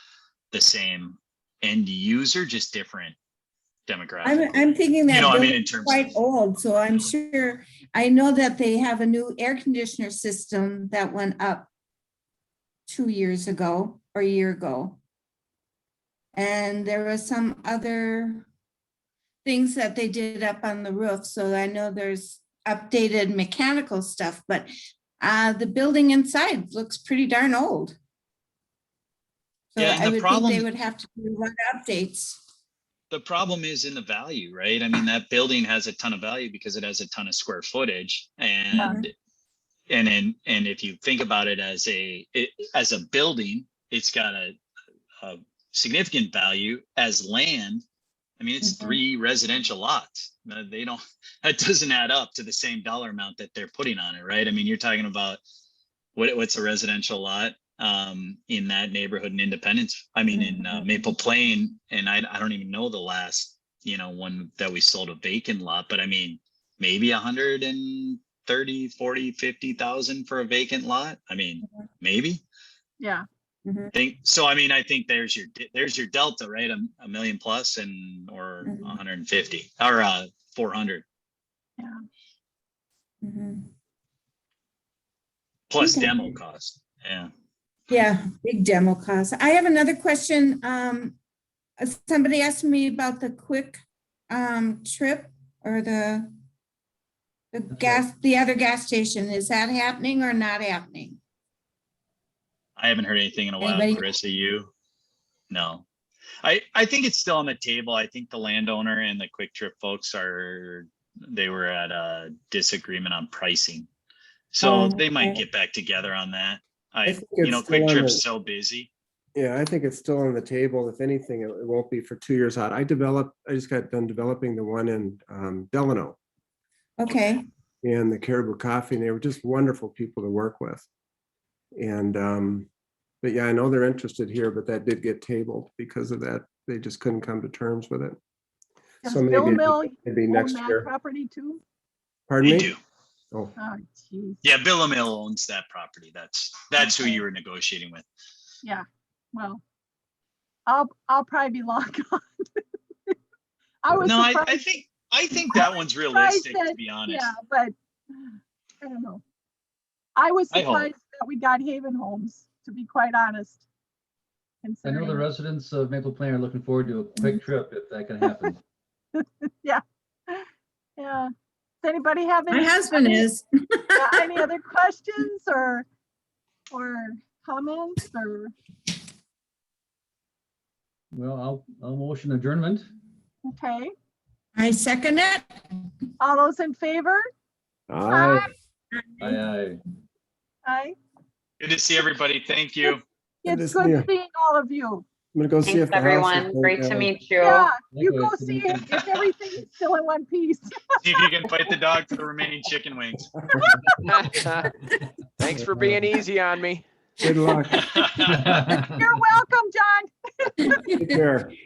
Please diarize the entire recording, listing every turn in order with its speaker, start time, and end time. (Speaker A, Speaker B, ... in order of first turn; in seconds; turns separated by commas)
Speaker A: 0.5-3.2, Speaker A: 3.9-6.2, Speaker B: 4.2-11.7, Speaker B: 12.9-15.0, Speaker B: 16.4-18.5, Speaker B: 19.4-28.0, Speaker B: 29.7-32.4, Speaker A: 29.8-30.7, Speaker A: 33.1-39.1, Speaker B: 38.8-39.0, Speaker A: 39.9-44.6, Speaker A: 45.2-47.8, Speaker A: 48.4-55.4, Speaker B: 48.6-49.0, Speaker A: 56.1-72.4, Speaker B: 60.3-60.9, Speaker B: 73.7-73.9, Speaker A: 73.9-81.0, Speaker B: 78.6-78.9, Speaker B: 83.2-83.7, Speaker A: 85.7-87.3, Speaker B: 85.8-86.4, Speaker B: 87.9-91.2, Speaker B: 91.8-96.3, Speaker B: 97.5-101.2, Speaker A: 102.8-104.7, Speaker B: 103.6-104.1, Speaker A: 105.5-105.9, Speaker A: 106.4-113.9, Speaker A: 114.5-118.9, Speaker B: 114.6-115.4, Speaker C: 117.1-118.2, Speaker C: 119.4-126.2, Speaker B: 127.0-127.5, Speaker A: 127.1-127.5, Speaker C: 127.8-130.9, Speaker C: 131.8-132.7, Speaker C: 133.2-138.2, Speaker D: 139.0-141.6, Speaker C: 139.0-140.9, Speaker C: 142.3-142.7, Speaker A: 142.4-142.8, Speaker D: 143.6-144.4, Speaker A: 144.4-148.1, Speaker D: 146.8-147.2, Speaker D: 148.6-149.6, Speaker D: 150.7-153.2, Speaker D: 153.8-154.7, Speaker A: 154.0-157.3, Speaker D: 155.5-159.2, Speaker D: 160.2-163.6, Speaker A: 160.5-160.9, Speaker D: 164.6-165.2, Speaker E: 164.8-168.6, Speaker D: 169.2-170.5, Speaker D: 171.0-171.3, Speaker D: 171.8-173.3, Speaker B: 172.5-174.2, Speaker D: 173.9-175.9, Speaker D: 176.7-178.5, Speaker E: 181.1-182.9, Speaker D: 183.5-183.9, Speaker B: 184.6-185.4, Speaker D: 186.2-187.3, Speaker C: 187.9-188.5, Speaker D: 188.1-188.5, Speaker E: 189.2-189.8, Speaker D: 190.7-191.0, Speaker A: 191.6-193.0, Speaker D: 193.4-195.1, Speaker C: 193.5-194.1, Speaker C: 195.3-197.2, Speaker F: 195.6-197.8, Speaker D: 197.4-200.8, Speaker E: 197.8-199.0, Speaker A: 201.0-203.3, Speaker D: 203.6-203.9, Speaker G: 204.1-204.7, Speaker G: 205.4-206.8, Speaker E: 205.5-206.2, Speaker C: 207.2-208.0, Speaker A: 207.8-208.4, Speaker E: 208.2-209.2, Speaker D: 209.0-210.7, Speaker B: 210.6-211.2, Speaker C: 210.9-211.5